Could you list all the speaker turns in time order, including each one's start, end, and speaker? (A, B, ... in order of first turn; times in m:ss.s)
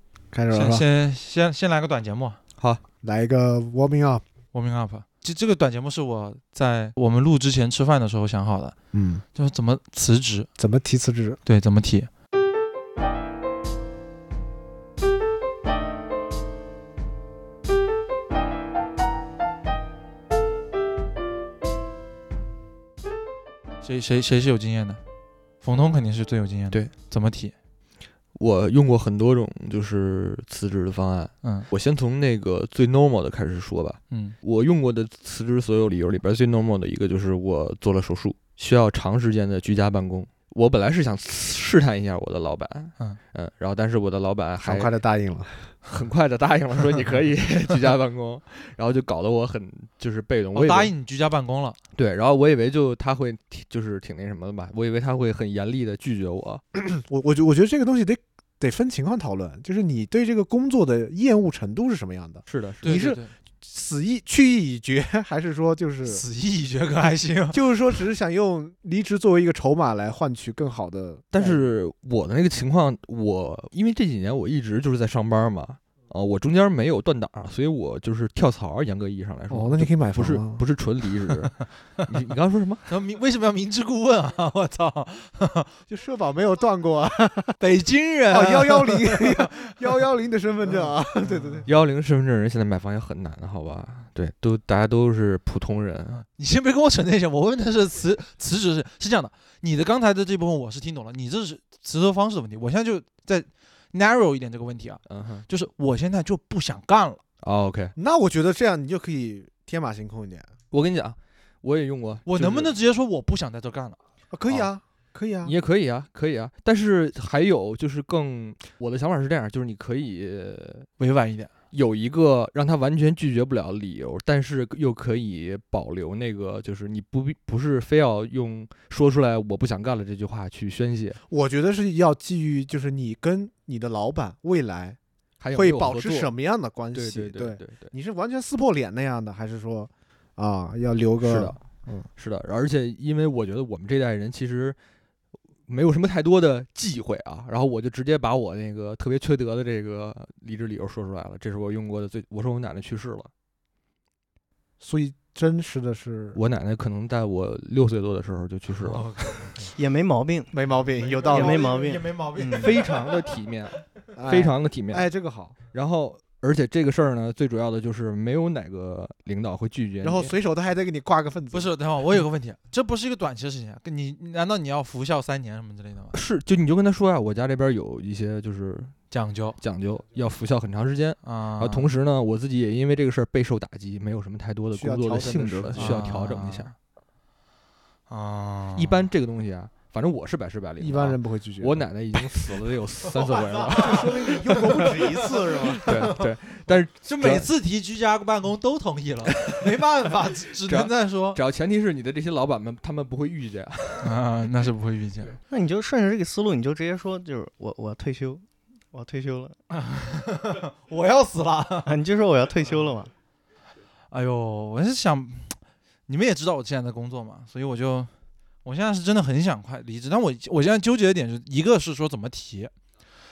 0:00.3-0:00.8 A
0:00.5-0:02.4 B
0:02.6-0:02.8 C
0:03.0-0:04.2 A
0:04.5-0:08.7 B
0:08.9-0:09.2 A
0:09.3-0:10.5 B
0:10.6-0:11.4 A
0:11.4-0:12.1 B
0:23.8-0:25.0 B
0:25.6-0:27.5 B
0:28.3-0:44.9 C
0:31.4-0:31.7 B
0:44.6-0:45.7 A
0:45.8-0:50.9 C
0:50.5-0:51.8 B
0:51.9-0:56.6 C
0:56.7-1:06.2 A
1:02.5-1:02.9 C
1:02.8-1:03.3 B
1:06.0-1:07.6 B
1:07.5-1:11.6 A
1:11.3-1:22.9 C
1:19.5-1:20.6 A
1:22.9-1:25.7 B
1:25.9-1:27.6 A
1:27.6-1:29.8 B
1:28.3-1:31.7 A
1:30.7-1:31.6 B
1:31.6-1:36.2 C
1:36.1-1:47.2 B
1:45.0-1:45.5 C
1:47.4-1:47.9 C
1:48.0-1:50.5 A
1:50.7-1:52.7 C
1:52.2-1:54.0 B
1:54.3-1:55.5 A
1:55.4-2:00.9 C
2:01.0-2:01.5 B
2:01.7-2:11.2 C
2:11.3-2:15.0 A
2:15.4-2:16.3 C
2:15.5-2:22.1 A
2:16.9-2:17.9 C
2:21.2-2:24.8 C
2:25.7-2:33.3 C
2:34.8-2:36.4 A
2:36.3-2:39.1 C
2:38.8-2:39.7 B
2:39.7-2:40.5 D
2:40.5-2:41.7 A
2:41.0-2:42.9 B
2:41.3-2:42.8 D
2:42.5-2:45.1 C
2:44.1-2:45.5 A
2:45.7-2:50.3 C
2:50.0-2:51.7 A
2:51.5-2:56.2 B
2:56.1-2:58.9 C
2:59.1-2:59.6 B
2:59.6-3:06.7 C
3:01.2-3:01.9 B
3:04.7-3:06.0 A
3:05.7-3:06.7 B
3:08.1-3:09.0 B
3:08.7-3:14.2 C
3:10.8-3:11.8 A
3:13.2-3:16.3 B
3:13.6-3:15.9 A
3:15.8-3:17.5 C
3:17.0-3:21.4 B
3:20.6-3:24.1 C
3:24.0-3:25.4 B
3:25.5-3:29.6 D
3:29.7-3:31.9 B
3:31.8-3:33.1 D
3:34.1-3:38.1 B
3:38.6-3:42.7 B